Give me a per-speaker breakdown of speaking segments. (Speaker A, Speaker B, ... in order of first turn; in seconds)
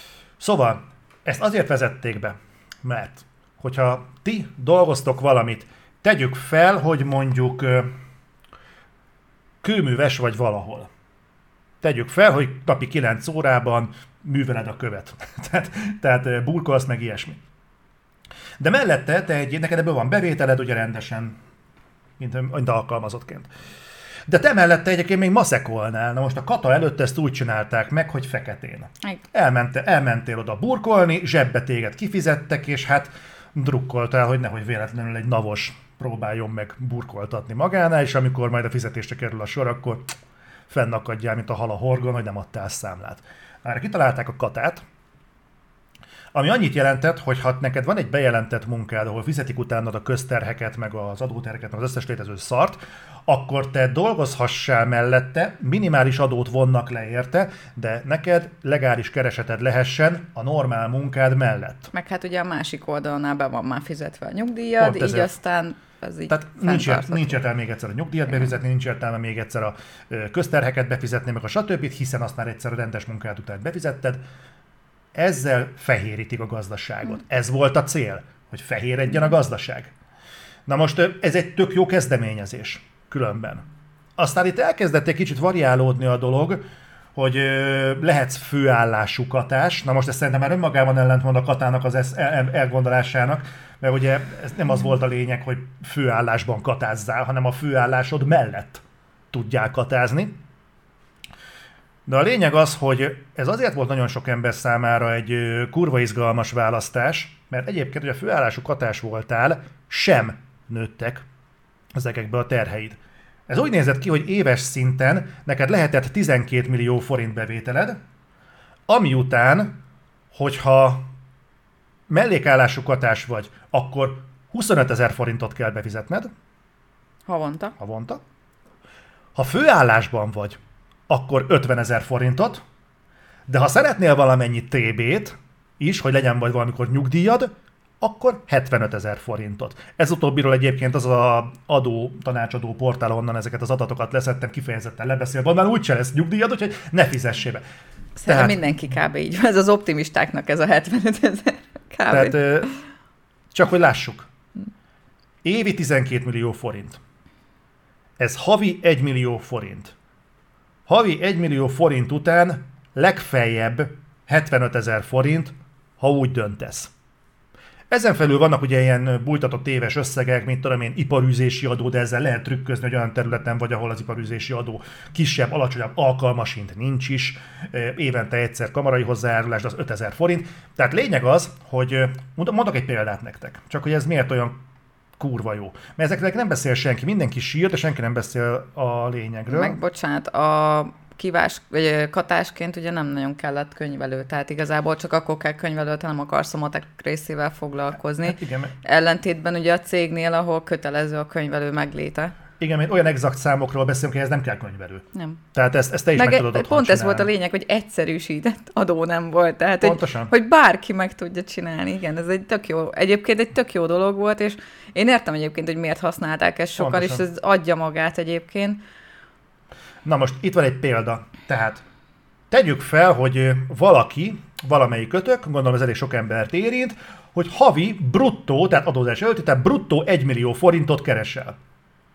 Speaker A: 0.4-7.9, 9.6-10.9, 11.8-17.4, 18.6-21.4, 22.2-23.5, 24.3-40.1, 40.7-44.8, 46.3-61.9, 64.8-65.3, 66.3-74.2, 75.1-79.9, 80.7-83.6, 84.2-86.6, 87.2-100.4, 102.1-111.2, 111.9-118.0, 118.9-119.8, 120.3-121.1, 122.1-126.3, 127.8-128.2, 129.3-132.6, 133.5-147.6, 148.2-148.6, 152.1-152.7, 153.5-154.3, 155.4-157.0, 158.2-159.9, 160.9-166.9, 167.9-184.6, 185.2-189.8, 198.2-198.7, 202.6-207.3, 209.8-210.3, 216.8-217.2, 220.1-221.8, 222.5-231.6
Speaker B: 61.9-67.4, 127.3-127.8, 148.2-152.7, 189.5-202.3, 206.2-218.8